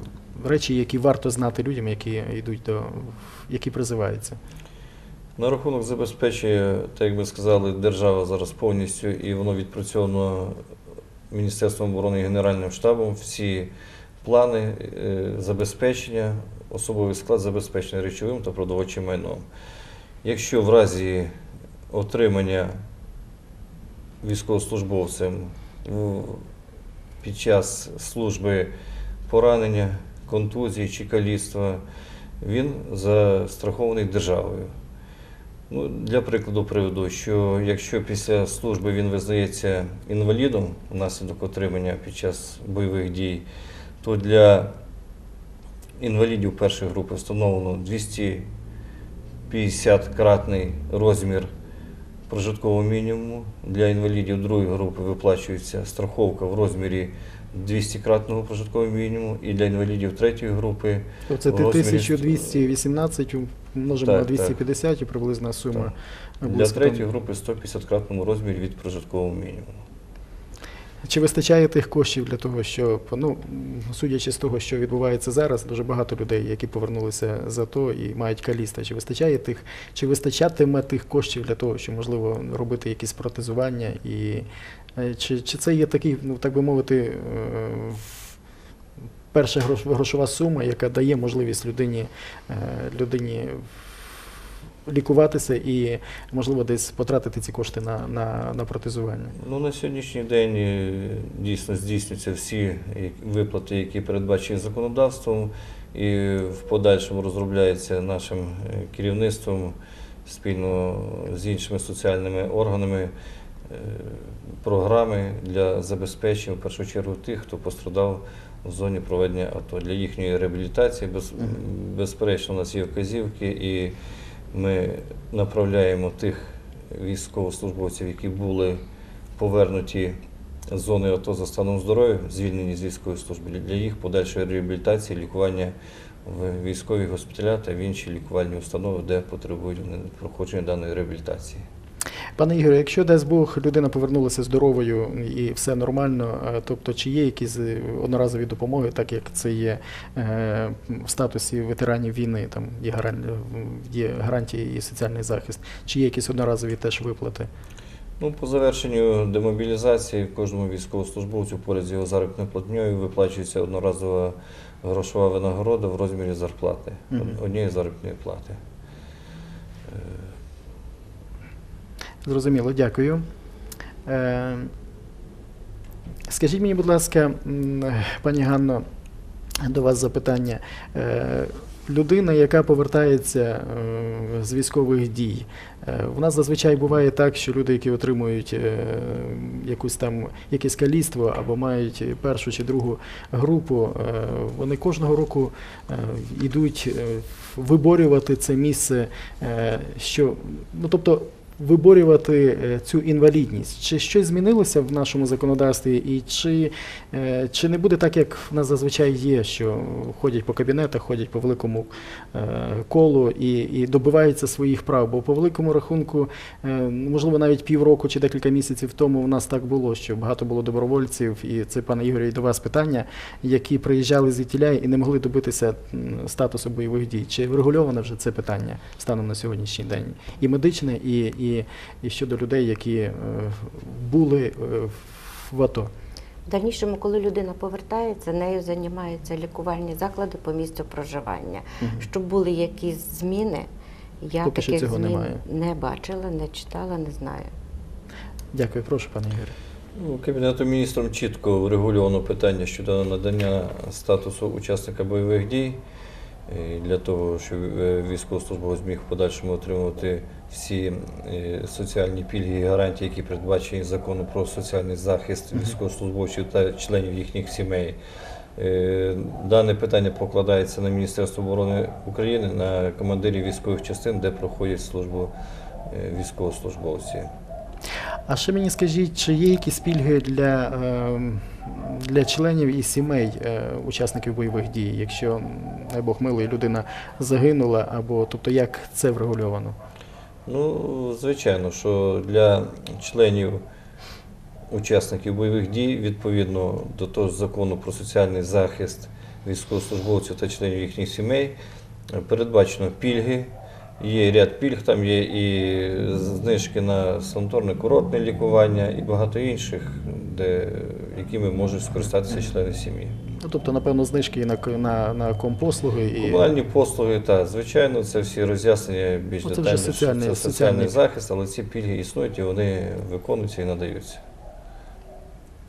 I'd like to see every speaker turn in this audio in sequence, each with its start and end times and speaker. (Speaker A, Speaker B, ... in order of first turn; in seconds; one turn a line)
Speaker A: 0.3-4.4
Speaker B: 5.4-10.6
Speaker B: 11.3-13.7
Speaker B: 14.2-19.4
Speaker B: 20.2-21.3
Speaker B: 21.9-22.7
Speaker B: 24.2-26.5
Speaker B: 27.2-28.7
Speaker B: 29.3-31.8
Speaker B: 32.4-34.7
Speaker B: 35.7-43.5
Speaker B: 44.0-44.7
Speaker B: 46.0-48.5
Speaker B: 49.5-51.5
Speaker B: 52.3-62.6
Speaker A: 61.3-67.0
Speaker B: 64.0-64.5
Speaker B: 66.4-69.8
Speaker A: 71.0-84.5
Speaker A: 85.0-88.3
Speaker A: 89.3-93.9
Speaker A: 94.8-99.3
Speaker B: 99.3-113.1
Speaker B: 113.7-124.0
Speaker B: 124.5-128.8
Speaker B: 129.4-130.2
Speaker B: 130.7-135.7
Speaker B: 136.2-141.6
Speaker A: 142.4-157.5
Speaker B: 158.2-168.6
Speaker B: 169.9-170.3
Speaker A: 172.2-173.2
Speaker A: 174.1-174.7
Speaker A: 176.3-178.8
Speaker A: 179.6-235.9
Speaker C: 236.4-243.7
Speaker A: 241.8-242.1
Speaker C: 244.2-247.5
Speaker A: 244.4-245.4
Speaker A: 248.5-249.5
Speaker B: 249.9-255.8
Speaker B: 256.5-268.0
Speaker B: 268.6-275.3
Speaker B: 275.9-277.3
Speaker A: 278.3-289.7
Speaker B: 290.4-293.6
Speaker B: 294.7-301.6
Speaker B: 302.1-313.2
Speaker A: 313.4-316.5
Speaker B: 316.2-324.2
Speaker A: 319.4-320.9